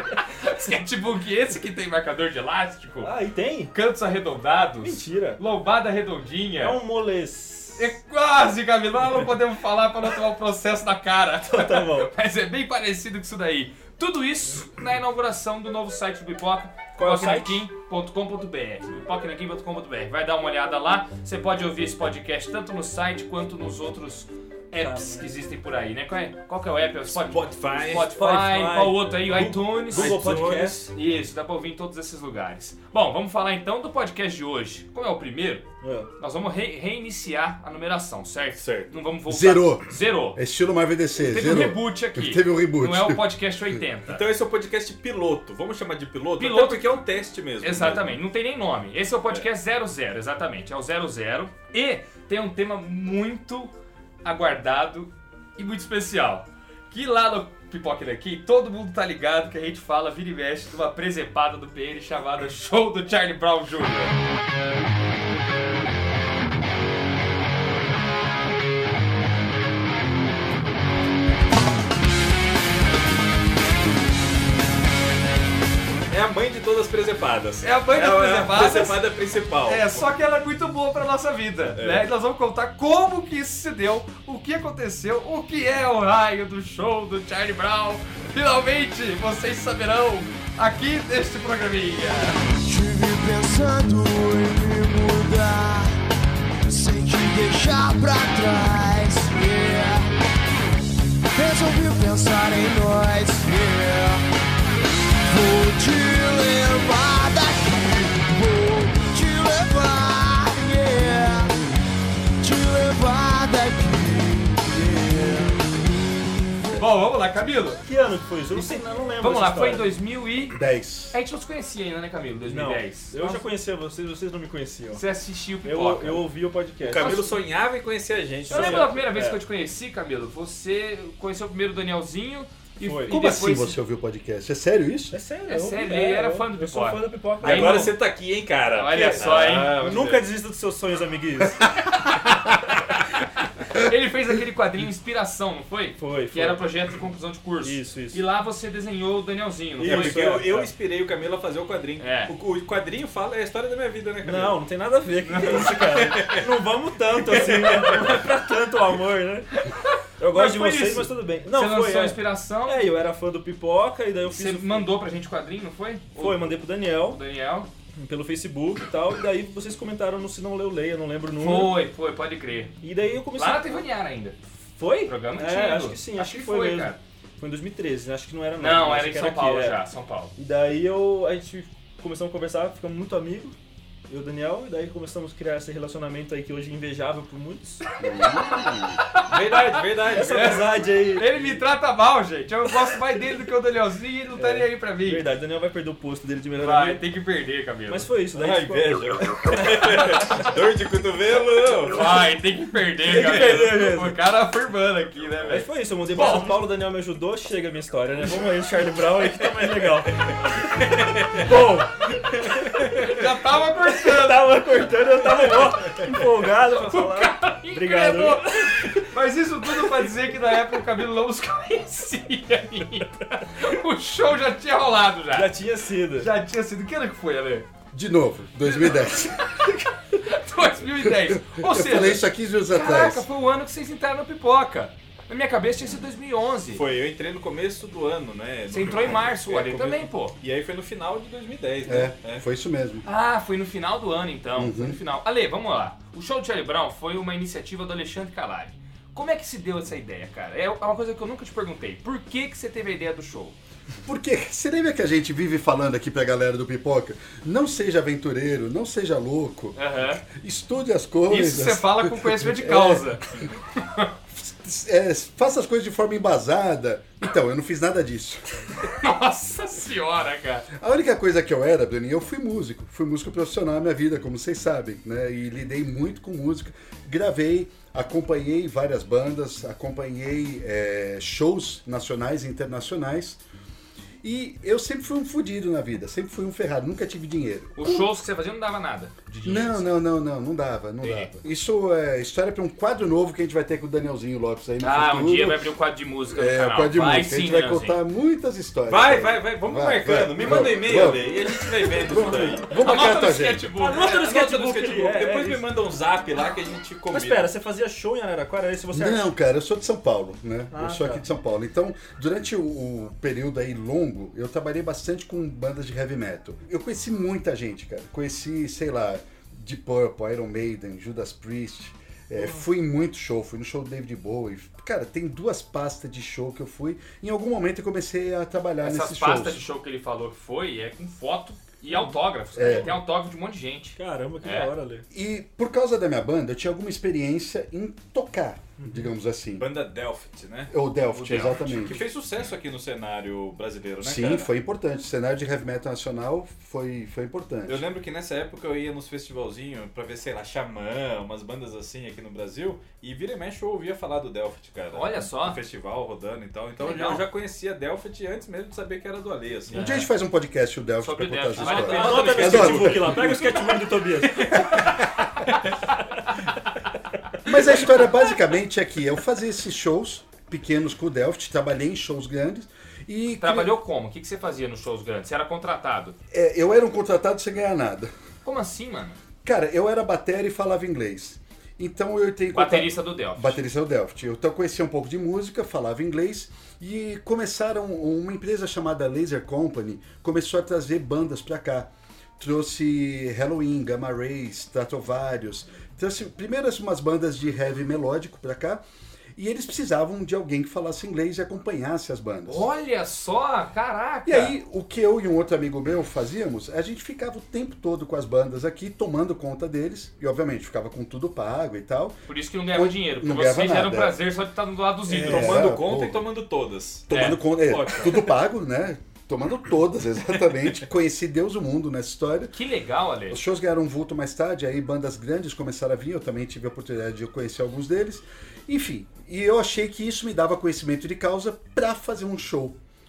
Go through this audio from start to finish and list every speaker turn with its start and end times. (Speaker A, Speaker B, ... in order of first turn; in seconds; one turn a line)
Speaker A: 0.3-3.1
Speaker B: 3.0-3.7
Speaker A: 3.7-6.8
Speaker B: 4.8-5.4
Speaker B: 6.6-7.9
Speaker A: 7.8-35.6
Speaker B: 11.5-12.1
Speaker B: 16.9-17.6
Speaker B: 24.8-25.3
Speaker C: 27.1-28.7
Speaker B: 28.1-30.9
Speaker C: 29.9-30.9
Speaker B: 35.8-36.1
Speaker A: 36.2-40.4
Speaker C: 38.6-38.9
Speaker D: 39.3-43.2
Speaker A: 41.2-44.2
Speaker C: 44.1-48.1
Speaker A: 46.4-47.0
Speaker A: 47.6-53.7
Speaker A: 54.2-64.1
Speaker C: 76.1-80.0
Speaker A: 77.6-79.0
Speaker A: 79.7-92.4
Speaker C: 81.8-82.0
Speaker E: 92.5-96.0
Speaker E: 96.6-100.1
Speaker E: 101.3-104.2
Speaker E: 105.2-111.5
Speaker E: 112.4-115.8
Speaker A: 116.7-117.8
Speaker B: 117.8-119.9
Speaker A: 118.5-120.6
Speaker D: 120.5-121.2
Speaker A: 121.1-123.4
Speaker B: 122.5-125.0
Speaker A: 124.9-126.3
Speaker B: 125.6-127.3
Speaker C: 126.8-129.0
Speaker A: 127.0-127.3
Speaker B: 128.5-129.4
Speaker A: 128.5-133.8
Speaker B: 132.8-133.2
Speaker D: 133.1-135.2
Speaker B: 135.1-137.9
Speaker A: 135.5-137.9
Speaker C: 137.4-140.2
Speaker A: 138.7-139.8
Speaker B: 139.2-141.9
Speaker A: 143.6-150.3
Speaker B: 146.0-146.7
Speaker B: 147.6-148.2
Speaker B: 149.8-150.7
Speaker C: 149.8-154.6
Speaker A: 152.0-152.3
Speaker B: 154.2-159.5
Speaker C: 155.3-156.6
Speaker C: 157.2-158.2
Speaker A: 159.6-162.8
Speaker B: 160.2-164.9
Speaker A: 164.3-167.7
Speaker B: 166.2-167.2
Speaker B: 168.0-171.8
Speaker A: 171.4-172.8
Speaker B: 172.8-173.8
Speaker A: 173.3-177.0
Speaker B: 174.8-179.8
Speaker A: 178.6-180.3
Speaker B: 180.4-183.6
Speaker B: 184.1-187.8
Speaker D: 188.0-189.0
Speaker A: 189.1-195.2
Speaker C: 189.2-190.8
Speaker B: 190.1-191.6
Speaker B: 194.4-197.0
Speaker A: 196.6-198.1
Speaker B: 197.9-200.2
Speaker C: 198.3-202.2
Speaker A: 201.9-206.7
Speaker B: 203.0-204.2
Speaker C: 203.1-203.7
Speaker B: 205.5-210.3
Speaker C: 210.7-211.5
Speaker B: 211.3-213.1
Speaker A: 211.5-211.8
Speaker C: 212.6-213.2
Speaker A: 212.9-214.6
Speaker B: 213.9-219.0
Speaker A: 216.7-225.5
Speaker B: 225.3-226.3
Speaker A: 226.2-227.7
Speaker D: 227.9-229.4
Speaker A: 228.7-236.8
Speaker D: 231.1-233.2
Speaker C: 236.7-242.4
Speaker A: 238.7-240.3
Speaker D: 241.8-243.0
Speaker A: 243.0-253.6
Speaker D: 244.6-245.0
Speaker D: 254.1-263.4
Speaker A: 259.8-260.2
Speaker A: 261.3-264.1
Speaker D: 264.4-268.7
Speaker A: 268.9-270.7
Speaker D: 270.7-283.4
Speaker D: 284.2-288.1
Speaker A: 287.8-289.9
Speaker D: 289.4-295.7
Speaker A: 291.0-291.3
Speaker A: 294.8-298.0
Speaker D: 296.3-303.7
Speaker C: 298.9-302.7
Speaker A: 302.7-304.2
Speaker B: 303.8-305.6
Speaker C: 303.9-307.5
Speaker B: 307.1-309.3
Speaker D: 308.9-329.6
Speaker B: 310.7-311.2
Speaker A: 328.8-334.7
Speaker D: 332.5-332.9
Speaker B: 334.0-335.1
Speaker D: 335.1-339.7
Speaker C: 339.6-340.7
Speaker D: 340.7-342.0
Speaker A: 341.1-341.8
Speaker C: 341.6-344.5
Speaker D: 344.0-347.8
Speaker C: 347.7-360.0
Speaker A: 354.9-355.6
Speaker A: 356.8-357.2
Speaker D: 359.7-363.6
Speaker A: 359.7-360.0
Speaker A: 361.0-362.9
Speaker C: 361.6-363.5
Speaker B: 361.6-364.6
Speaker D: 364.5-365.3
Speaker D: 367.4-373.7
Speaker A: 373.4-376.1
Speaker D: 376.3-378.1
Speaker A: 378.4-379.2
Speaker D: 379.4-398.8
Speaker A: 382.5-383.6
Speaker D: 399.4-402.6
Speaker A: 402.4-404.5
Speaker D: 404.2-412.2
Speaker A: 412.3-415.7
Speaker D: 412.7-414.1
Speaker D: 415.1-416.2
Speaker C: 415.1-418.3
Speaker D: 417.1-422.5
Speaker A: 417.1-417.4
Speaker A: 422.5-423.4
Speaker D: 423.3-432.8